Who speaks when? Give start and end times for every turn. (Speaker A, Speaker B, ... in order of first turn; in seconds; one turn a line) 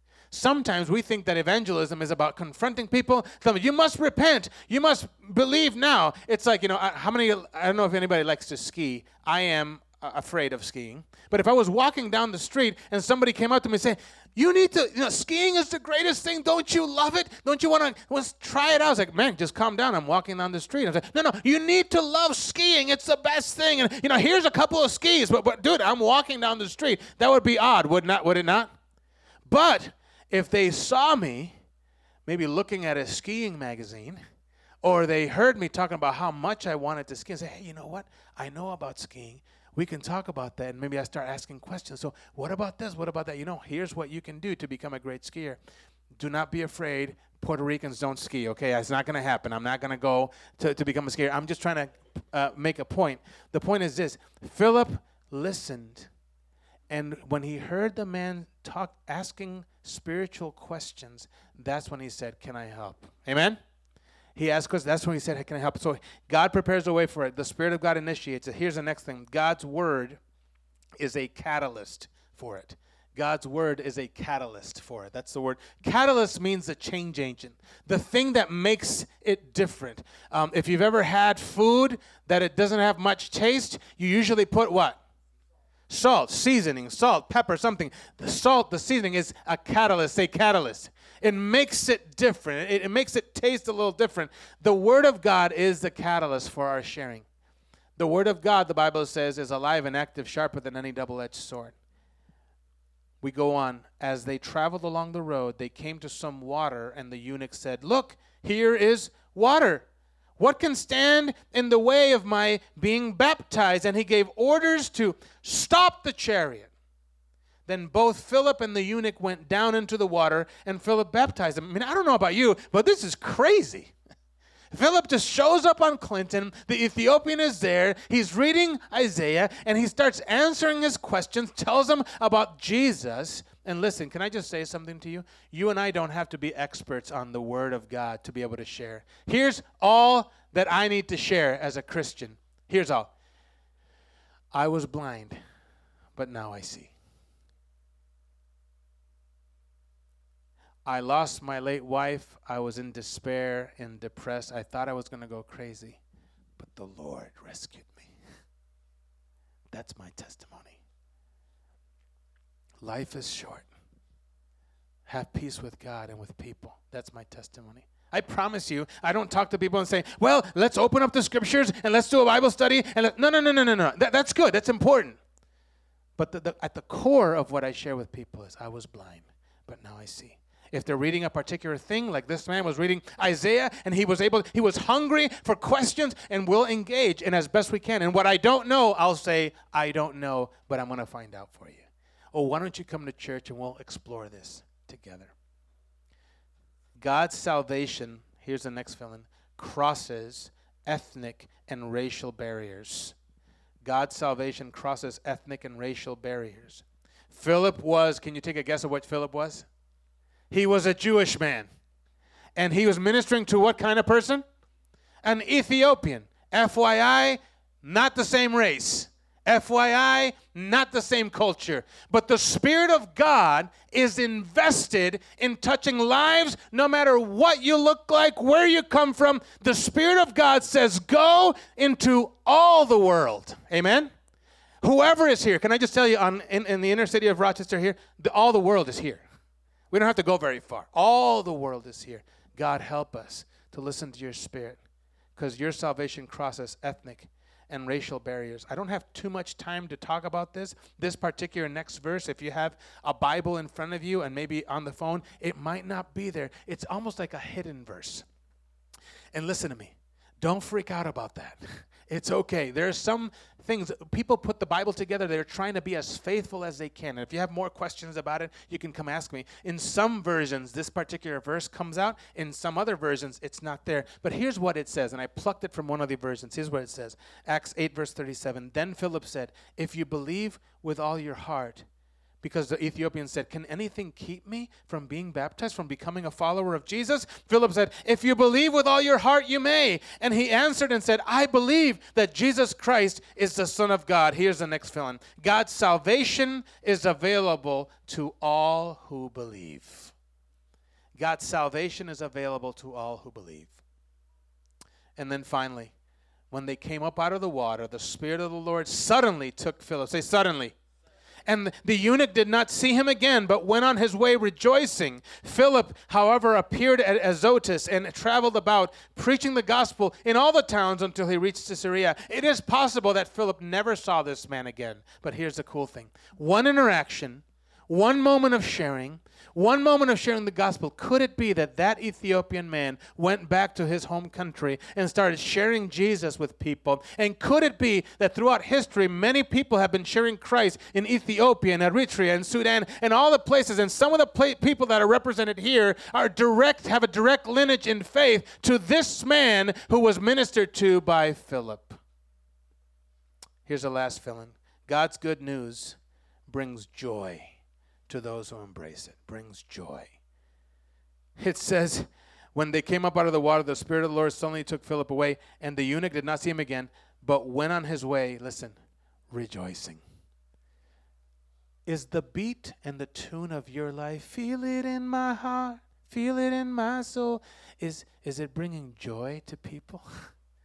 Speaker A: 0.3-28.7
Speaker A: 29.5-31.6
Speaker A: 32.3-34.2
Speaker A: 34.8-45.6
Speaker A: 46.2-56.1
Speaker A: 56.9-63.6
Speaker A: 64.4-70.2
Speaker A: 71.0-85.0
Speaker A: 85.9-97.3
Speaker A: 98.0-101.7
Speaker A: 103.2-109.9
Speaker A: 110.4-116.7
Speaker A: 117.7-123.9
Speaker A: 124.7-143.1
Speaker A: 144.5-145.4
Speaker A: 146.2-146.9
Speaker A: 150.9-156.0
Speaker A: 156.6-158.1
Speaker A: 159.7-160.8
Speaker A: 162.8-163.7
Speaker A: 165.1-175.2
Speaker A: 176.2-195.3
Speaker A: 197.0-203.2
Speaker A: 203.8-209.7
Speaker A: 210.5-211.7
Speaker A: 212.6-214.4
Speaker A: 215.2-234.1
Speaker A: 234.8-239.2
Speaker A: 239.9-244.8
Speaker A: 245.4-258.2
Speaker A: 259.3-281.9
Speaker A: 282.4-300.1
Speaker A: 301.2-303.8
Speaker A: 305.2-305.9
Speaker A: 306.5-310.8
Speaker A: 311.5-352.0
Speaker A: 353.6-357.6
Speaker A: 358.1-360.1
Speaker A: 361.4-368.8
Speaker A: 369.3-370.0
Speaker A: 371.9-380.1